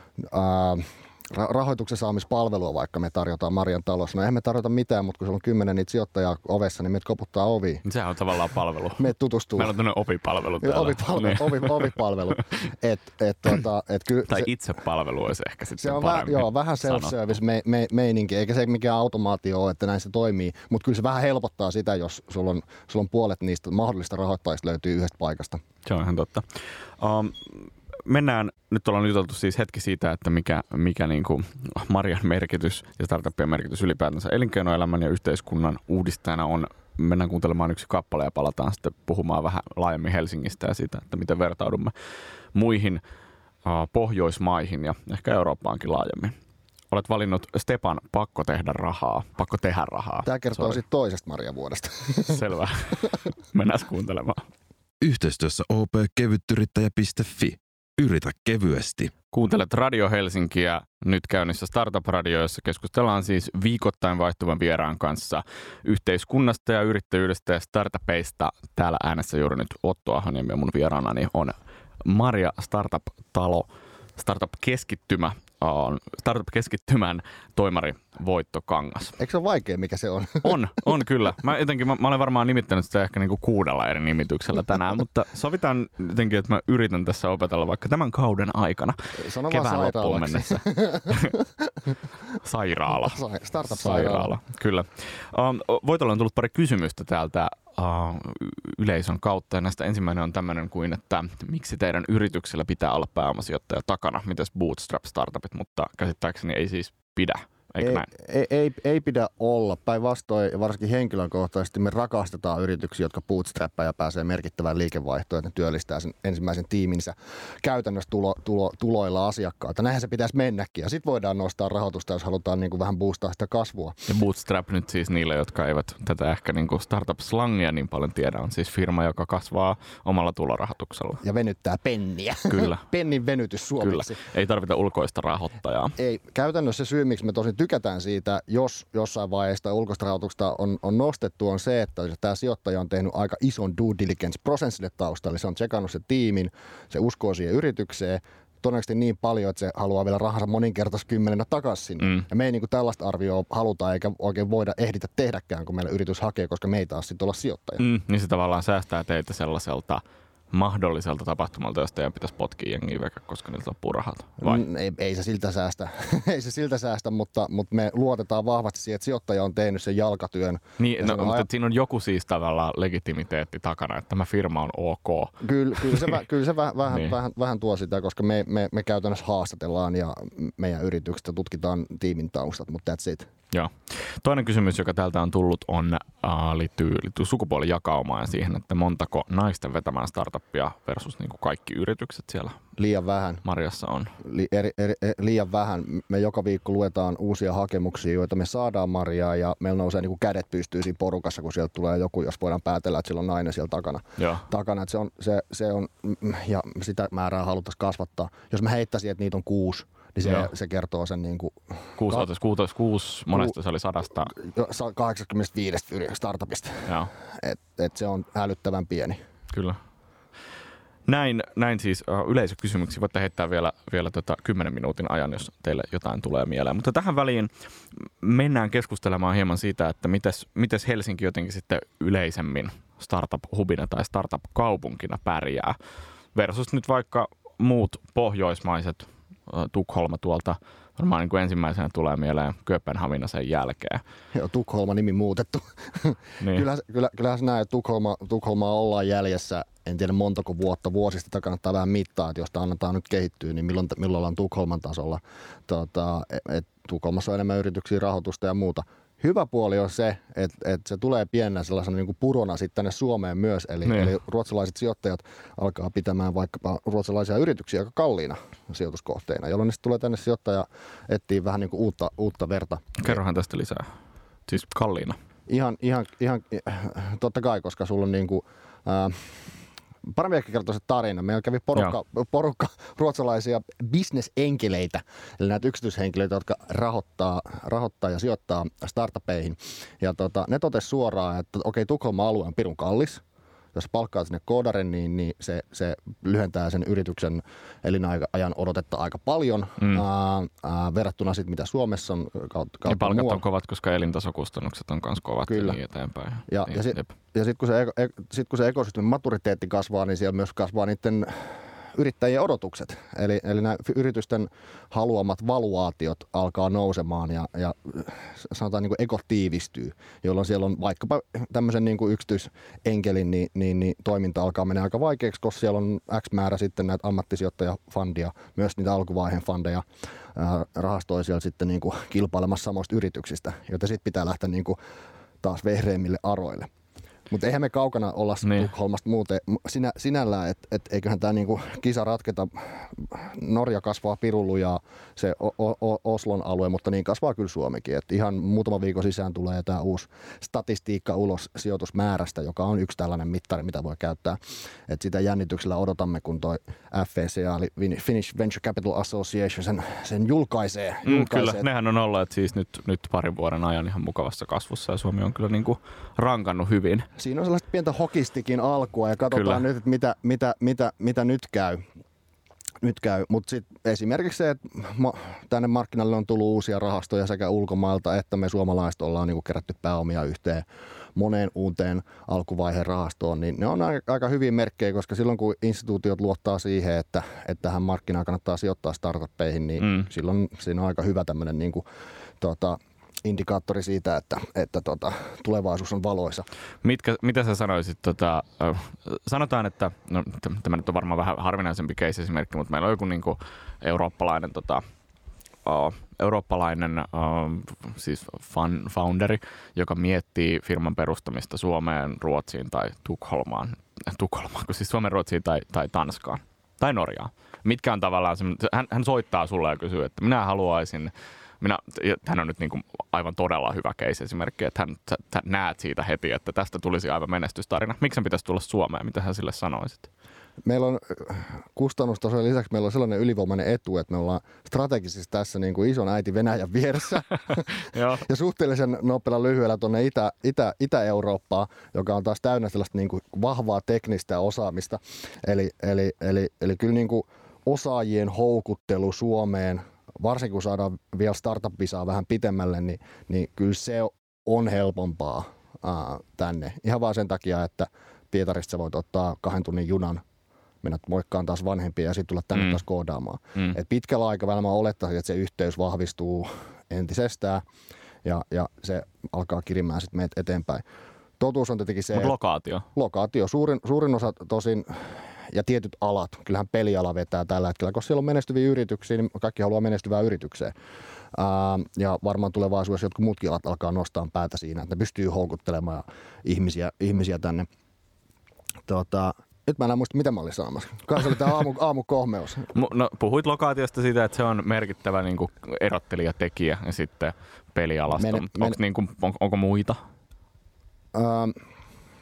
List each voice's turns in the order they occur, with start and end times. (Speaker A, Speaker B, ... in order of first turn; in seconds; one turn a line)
Speaker A: 0.2-7.8
Speaker B: 7.8-11.9
Speaker A: 9.0-9.7
Speaker A: 10.6-14.5
Speaker B: 14.3-17.1
Speaker A: 15.8-25.6
Speaker B: 25.8-41.9
Speaker B: 42.5-43.0
Speaker B: 43.6-46.3
Speaker B: 46.9-50.8
Speaker A: 50.2-52.4
Speaker B: 52.2-54.5
Speaker C: 55.0-59.1
Speaker B: 59.3-79.2
Speaker A: 79.2-80.5
Speaker B: 80.4-89.0
Speaker A: 89.2-91.7
Speaker B: 89.5-91.3
Speaker B: 92.4-108.1
Speaker A: 92.9-94.3
Speaker A: 107.8-123.9
Speaker B: 124.1-131.2
Speaker A: 131.2-134.2
Speaker B: 132.5-132.8
Speaker B: 133.8-135.9
Speaker A: 136.0-157.8
Speaker B: 152.0-152.2
Speaker B: 157.8-164.6
Speaker A: 164.4-171.5
Speaker B: 170.8-176.1
Speaker A: 175.4-183.3
Speaker B: 176.9-177.1
Speaker B: 183.5-192.6
Speaker A: 192.8-193.4
Speaker B: 193.4-194.1
Speaker A: 194.2-212.2
Speaker B: 204.2-204.4
Speaker B: 210.2-210.5
Speaker B: 212.0-214.3
Speaker A: 214.3-219.2
Speaker B: 216.8-217.1
Speaker B: 219.5-219.8
Speaker B: 221.1-235.8
Speaker B: 236.3-244.0
Speaker A: 244.3-273.2
Speaker B: 246.4-246.6
Speaker B: 263.9-264.1
Speaker B: 273.0-273.9
Speaker B: 274.5-275.2
Speaker A: 275.5-279.5
Speaker A: 280.1-293.2
Speaker A: 293.7-303.4
Speaker B: 302.9-307.1
Speaker A: 305.5-305.8
Speaker A: 306.5-334.8
Speaker A: 335.4-336.7
Speaker A: 337.3-361.6
Speaker B: 338.4-338.7
Speaker B: 361.0-367.1
Speaker A: 367.2-371.8
Speaker B: 369.3-369.6
Speaker A: 372.8-391.8
Speaker B: 389.8-390.1
Speaker A: 392.4-396.5
Speaker B: 396.8-404.8
Speaker B: 405.6-430.1
Speaker A: 430.6-460.2
Speaker B: 437.8-438.2
Speaker A: 460.8-467.6
Speaker A: 468.2-470.8
Speaker A: 471.4-472.4
Speaker B: 472.1-472.9
Speaker A: 472.9-480.7
Speaker A: 481.3-487.7
Speaker A: 488.9-492.7
Speaker B: 492.7-500.0
Speaker A: 498.1-498.8
Speaker A: 501.1-501.6